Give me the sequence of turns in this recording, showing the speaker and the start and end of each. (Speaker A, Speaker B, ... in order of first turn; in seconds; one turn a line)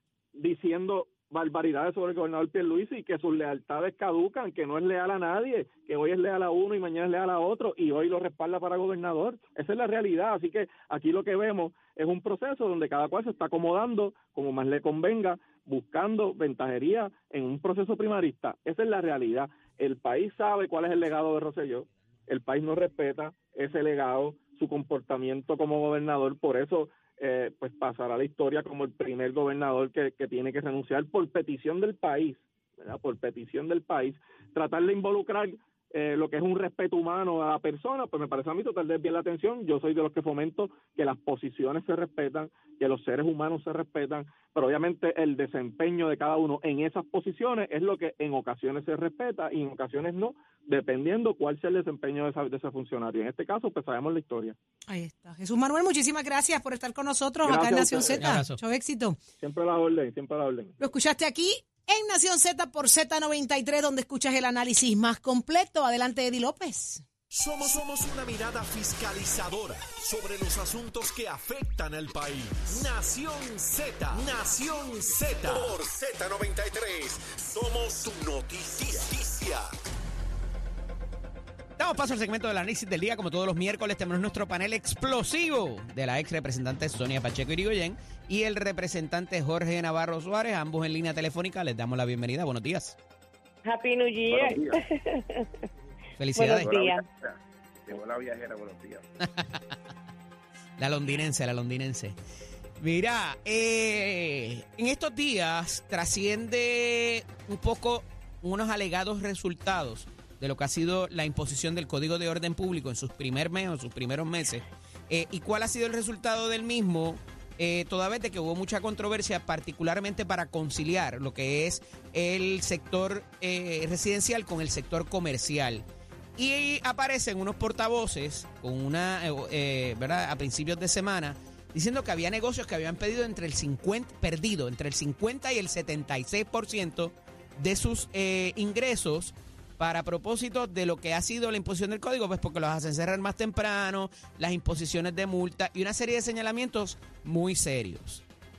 Speaker A: 0.3-54.6
Speaker B: 54.9-59.2
Speaker A: 57.4-58.4
Speaker C: 58.2-58.6
Speaker A: 59.4-60.8
Speaker B: 60.8-67.0
Speaker D: 67.3-79.7
Speaker C: 81.8-93.0
Speaker E: 93.7-95.5
Speaker F: 94.3-94.8
Speaker C: 96.2-96.8
Speaker E: 96.3-97.0
Speaker F: 96.6-99.0
Speaker C: 99.2-99.6
Speaker C: 100.8-102.2
Speaker C: 102.8-125.8
Speaker C: 126.4-148.2